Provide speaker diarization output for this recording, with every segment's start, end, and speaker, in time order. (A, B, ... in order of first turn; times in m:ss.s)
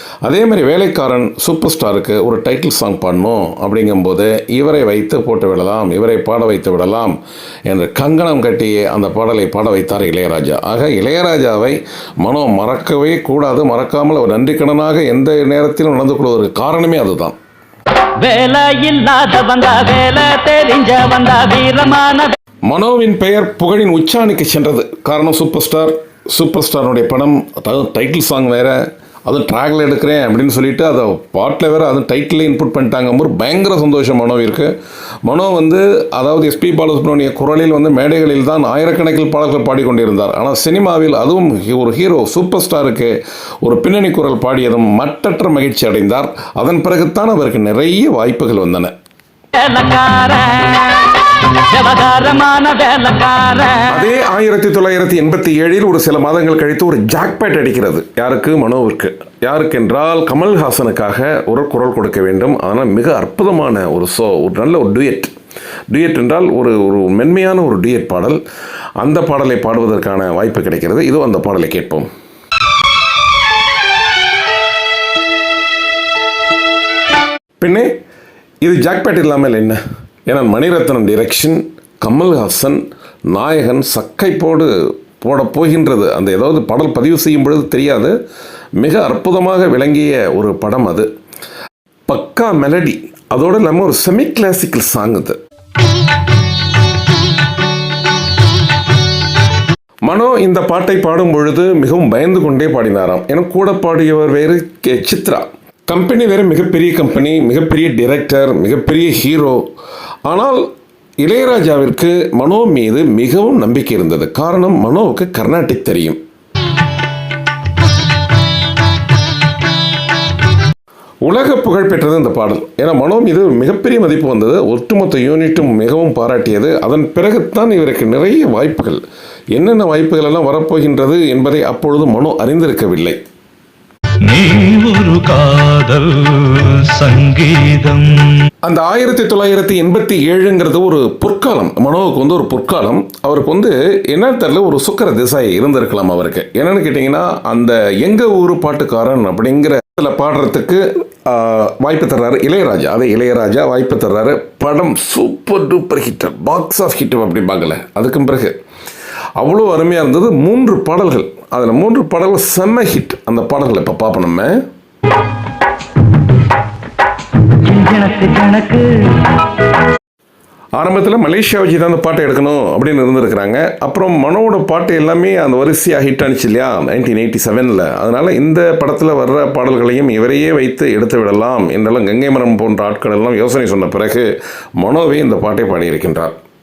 0:00.2-0:17.4 A
0:18.2-0:22.4 B
0:22.7-0:34.7 A
0:35.3-0:48.9 A
0:49.6-0:53.9 B
0:53.9-1:05.3 A
1:05.9-1:08.4 A
1:09.0-1:12.1 A
1:17.6-1:17.9 A
1:18.6-1:28.1 A
1:28.8-1:31.1 A
1:32.1-1:35.4 A
1:40.1-1:49.6 A
1:50.3-1:50.7 A
1:51.2-1:56.2 A
2:01.2-2:09.0 A
2:09.6-2:13.2 A
2:14.2-2:18.5 C
2:18.6-2:38.6 A
2:39.4-2:44.6 A
2:47.6-2:49.2 B
2:50.8-3:06.3 A